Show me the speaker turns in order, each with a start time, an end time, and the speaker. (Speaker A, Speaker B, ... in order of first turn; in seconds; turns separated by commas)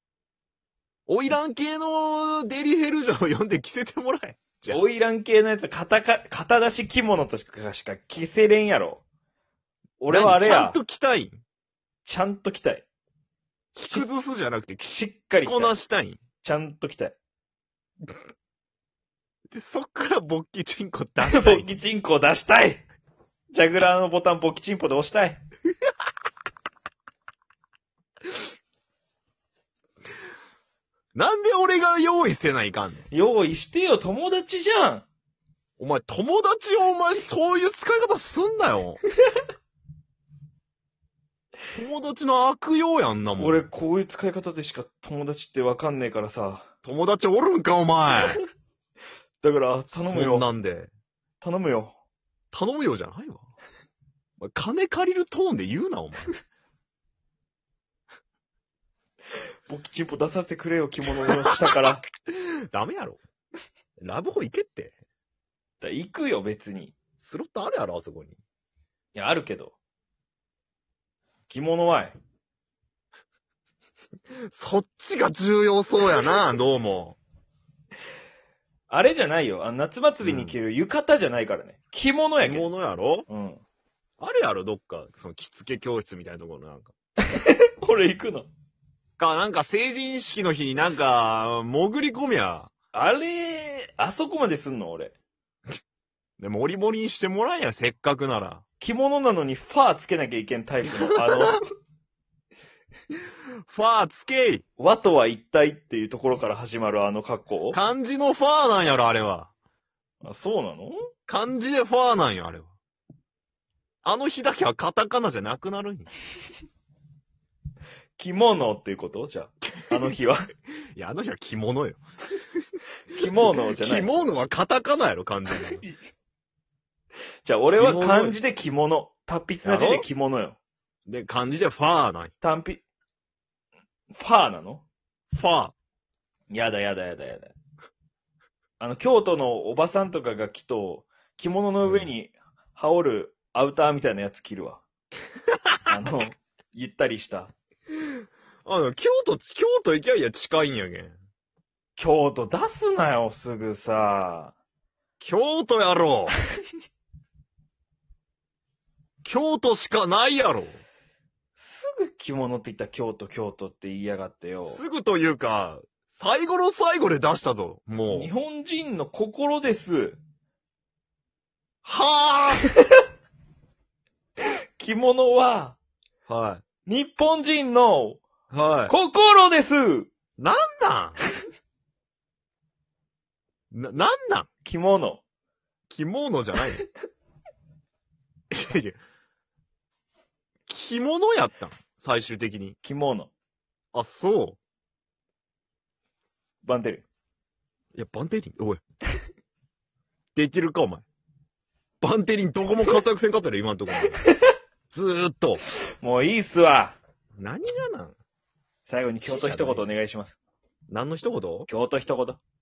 Speaker A: 1.1-4.8, Speaker B: 4.7-9.0, Speaker B: 10.0-10.8, Speaker A: 10.1-11.4, Speaker B: 12.1-12.9, Speaker A: 13.8-14.8, Speaker B: 14.8-15.7, Speaker A: 15.4-16.2, Speaker B: 16.4-17.2, Speaker A: 19.5-21.7, Speaker B: 21.2-22.8, Speaker B: 23.5-25.4, Speaker A: 31.1-33.0, Speaker B: 33.1-35.1, Speaker A: 35.8-39.0, Speaker A: 41.7-43.7, Speaker B: 43.4-46.7, Speaker A: 46.8-48.4, Speaker B: 49.4-50.5, Speaker A: 49.9-50.9, Speaker B: 51.4-52.0, Speaker A: 52.5-53.4, Speaker A: 54.4-56.3, Speaker B: 59.7-62.0, Speaker A: 62.2-63.2, Speaker A: 64.0-64.9, Speaker B: 65.8-67.0, Speaker A: 67.2-68.4, Speaker B: 69.2-69.8, Speaker B: 71.5-72.2, Speaker A: 74.5-77.2, Speaker B: 78.9-82.7, Speaker A: 80.2-80.6, Speaker A: 82.4-83.3, Speaker B: 83.3-83.6, Speaker A: 84.2-86.9, Speaker B: 87.3-88.5, Speaker A: 89.2-92.7, Speaker B: 92.9-95.1, Speaker A: 96.4-98.6, Speaker B: 98.8-101.6, Speaker A: 101.1-101.6, Speaker A: 103.7-104.6, Speaker B: 104.8-107.8, Speaker A: 107.7-109.5, Speaker B: 110.2-111.0, Speaker A: 111.3-112.7, Speaker A: 114.0-116.1, Speaker B: 118.2-120.5, Speaker A: 121.0-122.0, Speaker B: 123.1-124.2, Speaker A: 123.7-125.8, Speaker B: 127.4-130.6, Speaker A: 127.7-128.4, Speaker A: 129.6-130.1, Speaker A: 131.1-132.3, Speaker B: 132.4-132.8, Speaker B: 134.1-134.8, Speaker A: 135.3-135.7, Speaker B: 136.5-137.5, Speaker B: 138.8-144.8, Speaker B: 145.9-147.5, Speaker A: 148.7-151.2, Speaker B: 152.0-154.5, Speaker A: 155.2-156.3, Speaker A: 159.2-160.8, Speaker B: 161.6-164.8, Speaker A: 164.6-168.3, Speaker B: 168.1-170.2, Speaker A: 171.8-172.7, Speaker B: 174.8-175.8, Speaker A: 176.3-176.6, Speaker B: 176.9-178.2, Speaker A: 178.5-178.9, Speaker B: 178.9-180.1, Speaker A: 180.4-181.2, Speaker A: 183.7-184.5, Speaker B: 184.7-185.2, Speaker A: 185.9-186.8, Speaker A: 188.5-189.0, Speaker A: 190.7-192.8, Speaker B: 192.8-193.3, Speaker A: 193.9-194.6, Speaker B: 196.6-197.1, Speaker A: 197.9-198.8, Speaker A: 200.3-201.1, Speaker A: 202.0-204.2, Speaker B: 204.1-204.5, Speaker A: 204.9-205.6, Speaker B: 206.0-207.0, Speaker A: 207.4-208.2, Speaker B: 208.9-210.4, Speaker A: 209.2-209.9, Speaker A: 210.9-211.7, Speaker B: 211.7-212.4